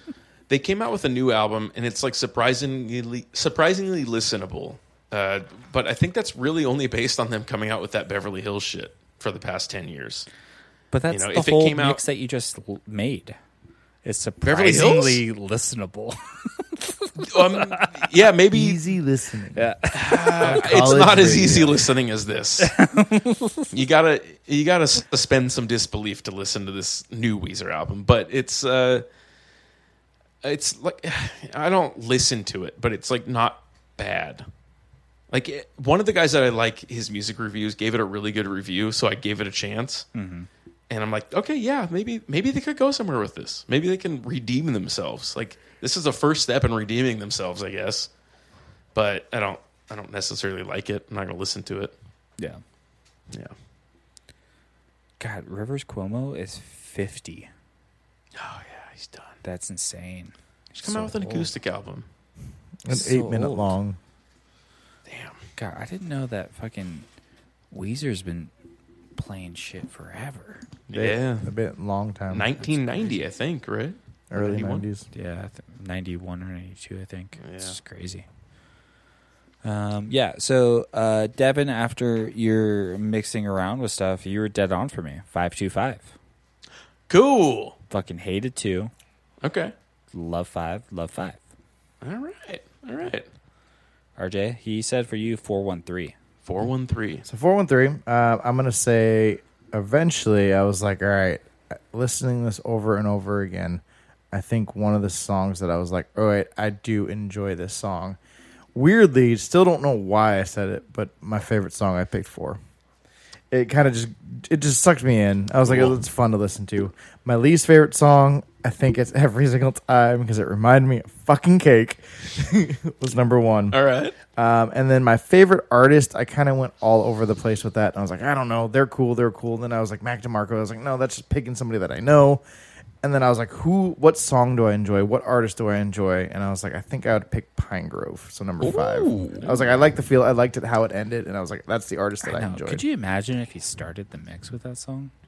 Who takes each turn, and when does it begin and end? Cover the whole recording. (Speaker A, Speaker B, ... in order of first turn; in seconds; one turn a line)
Speaker A: 0.5-10.3
Speaker B: 10.9-13.4
Speaker A: 11.1-12.0
Speaker B: 14.1-18.0
Speaker A: 14.4-15.2
Speaker A: 17.2-18.8
Speaker C: 18.5-19.7
Speaker B: 19.6-21.3
Speaker A: 19.9-22.7
Speaker C: 20.4-21.9
Speaker B: 22.6-23.7
Speaker A: 23.7-29.1
Speaker A: 30.4-34.5
Speaker A: 35.3-40.1
Speaker B: 40.1-40.5
Speaker A: 40.9-48.1
Speaker A: 49.0-52.0
Speaker B: 55.2-57.5
Speaker A: 58.4-59.4
Speaker B: 59.4-61.5
Speaker A: 60.8-62.1
Speaker C: 62.9-64.0
Speaker B: 62.9-63.8
Speaker A: 65.1-65.4
Speaker B: 65.6-67.1
Speaker B: 67.7-68.5
Speaker B: 69.2-70.7
Speaker A: 70.9-71.5
Speaker C: 70.9-72.5
Speaker A: 72.3-74.9
Speaker C: 74.3-75.1
Speaker B: 75.1-78.3
Speaker A: 77.4-77.8
Speaker B: 79.6-86.1
Speaker A: 87.1-87.8
Speaker B: 87.9-88.9
Speaker A: 89.4-89.7
Speaker B: 90.1-91.4
Speaker A: 92.0-93.3
Speaker B: 94.2-96.2
Speaker A: 96.5-97.2
Speaker C: 97.3-108.2
Speaker C: 108.8-112.6
Speaker C: 113.5-123.8
Speaker A: 115.7-116.0
Speaker A: 123.7-124.2
Speaker C: 124.3-132.4
Speaker C: 133.0-142.8
Speaker A: 138.6-139.6
Speaker B: 142.2-145.1